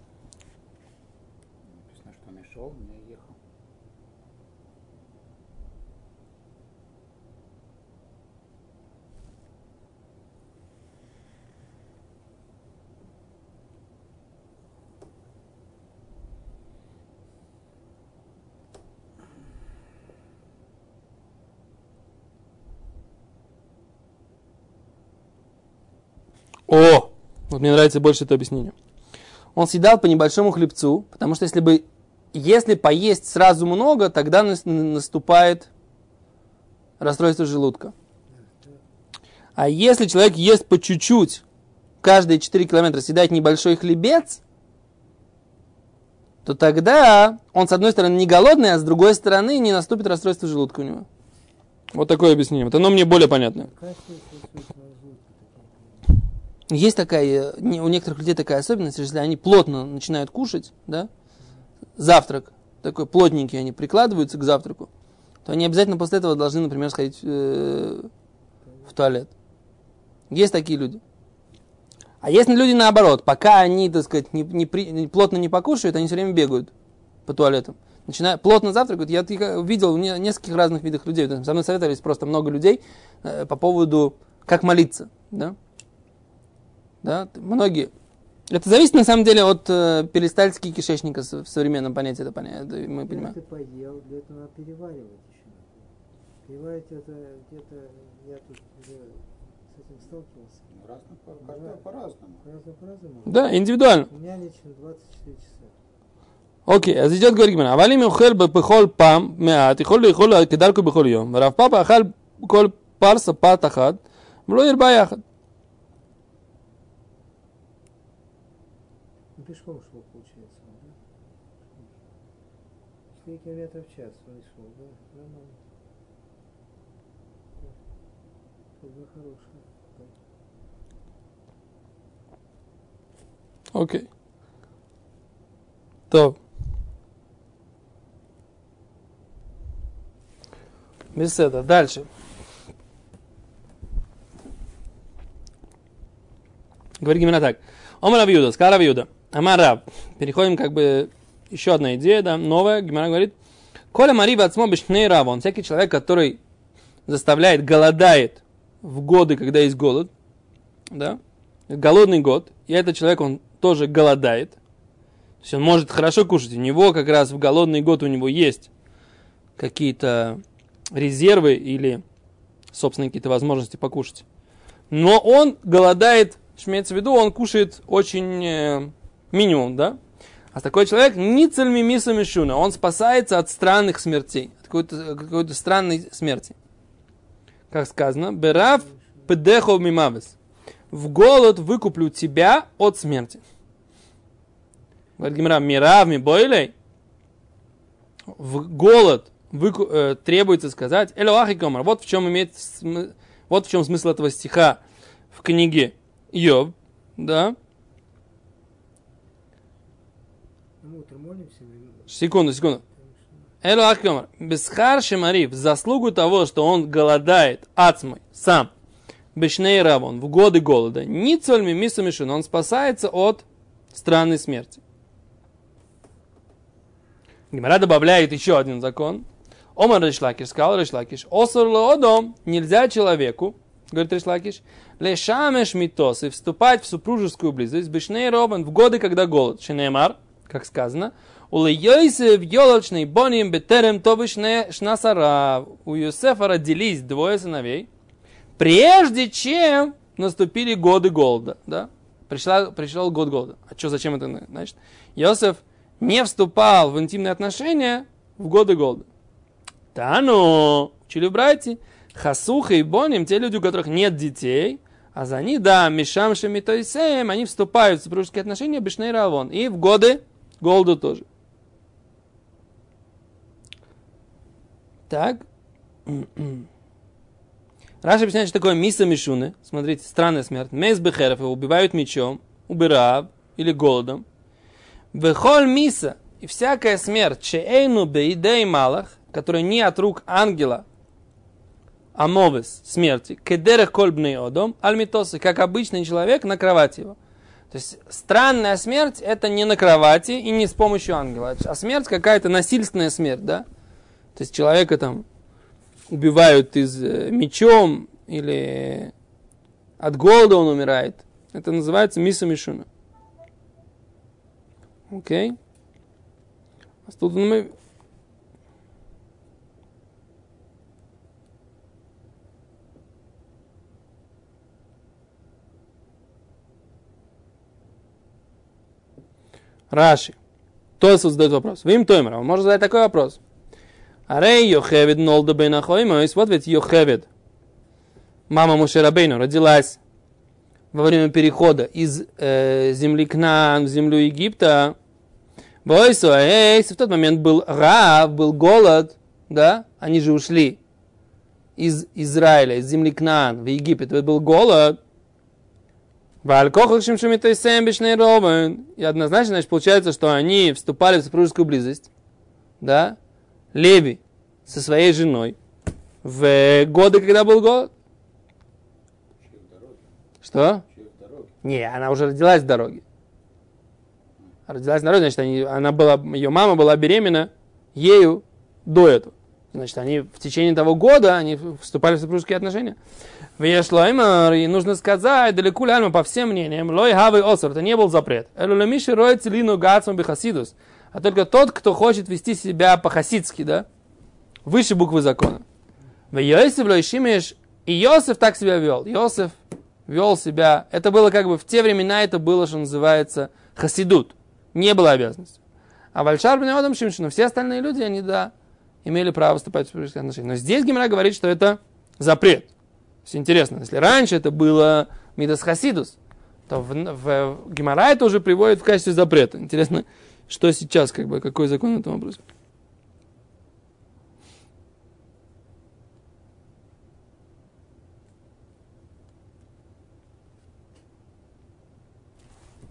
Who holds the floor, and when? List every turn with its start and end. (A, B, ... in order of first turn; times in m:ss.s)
0:01.6-0:03.4 A
0:26.7-0:28.7 B
0:29.5-0:35.7 B
0:37.0-0:37.9 B
0:38.3-0:38.8 C
0:39.6-0:41.4 B
0:42.0-0:44.4 B
0:46.4-0:51.1 B
0:51.9-0:53.7 B
0:53.6-0:56.1 C
0:56.7-1:01.1 B
1:02.0-1:04.9 B
1:05.4-1:08.1 B
1:08.9-1:09.3 B
1:10.3-1:11.0 B
1:12.2-1:16.7 B
1:17.2-1:25.6 B
1:27.0-1:27.9 B
1:28.5-1:33.3 B
1:33.1-1:35.9 C
1:36.4-1:40.7 C
1:40.7-1:42.4 A
1:41.4-1:41.8 C
1:42.4-1:43.4 C
1:43.2-1:44.1 B
1:44.1-1:45.7 C
1:46.6-1:55.2 B
1:59.3-2:01.0 C
2:01.7-2:01.9 C
2:03.1-2:05.6 C
2:08.8-2:10.2 C
2:13.7-2:14.1 B
2:16.1-2:16.4 B
2:21.1-2:22.1 B
2:27.0-2:33.3 B
2:33.9-2:36.4 B
2:37.0-2:40.1 B
2:40.9-2:44.6 B
2:45.4-2:48.7 B
2:49.6-2:50.4 B
2:50.9-2:52.0 B
2:52.7-2:54.2 B
2:54.9-3:00.0 B
3:00.5-3:06.6 B
3:07.7-3:10.4 B
3:08.6-3:09.3 C
3:10.9-3:13.4 B
3:15.2-3:16.7 B
3:18.3-3:24.8 B
3:25.3-3:27.6 B
3:30.8-3:33.5 C
3:32.1-3:32.8 B
3:33.6-3:38.7 B
3:39.3-3:44.8 B
3:47.5-4:07.9 B
4:08.6-4:19.1 B
4:19.9-4:31.2 B
4:35.1-4:35.4 B
4:36.0-4:36.6 B
4:38.0-4:44.2 B
4:45.1-4:50.8 B
4:52.1-4:57.2 B
4:57.7-5:03.6 B
5:04.3-5:05.2 B
5:06.1-5:09.1 B
5:10.0-5:12.9 B
5:15.1-5:15.6 B
5:17.0-5:17.7 B
5:29.9-5:30.4 B
5:31.0-5:33.4 B
5:34.3-5:37.3 B
5:38.5-5:40.0 B
5:40.9-5:44.9 B
5:45.8-5:50.8 B
5:51.8-5:55.0 B
5:56.4-6:02.1 B
6:02.8-6:03.2 B
6:03.7-6:05.6 B
6:06.2-6:07.9 B
6:09.4-6:10.1 A
6:10.4-6:10.8 B
6:10.8-6:11.5 A
6:11.6-6:13.0 B
6:14.7-6:23.0 B
6:23.6-6:33.8 B
6:34.6-6:35.6 B
6:36.3-6:45.6 B
6:46.1-6:48.5 B
6:49.0-6:52.7 B
6:53.2-6:56.2 B
6:56.7-7:02.4 B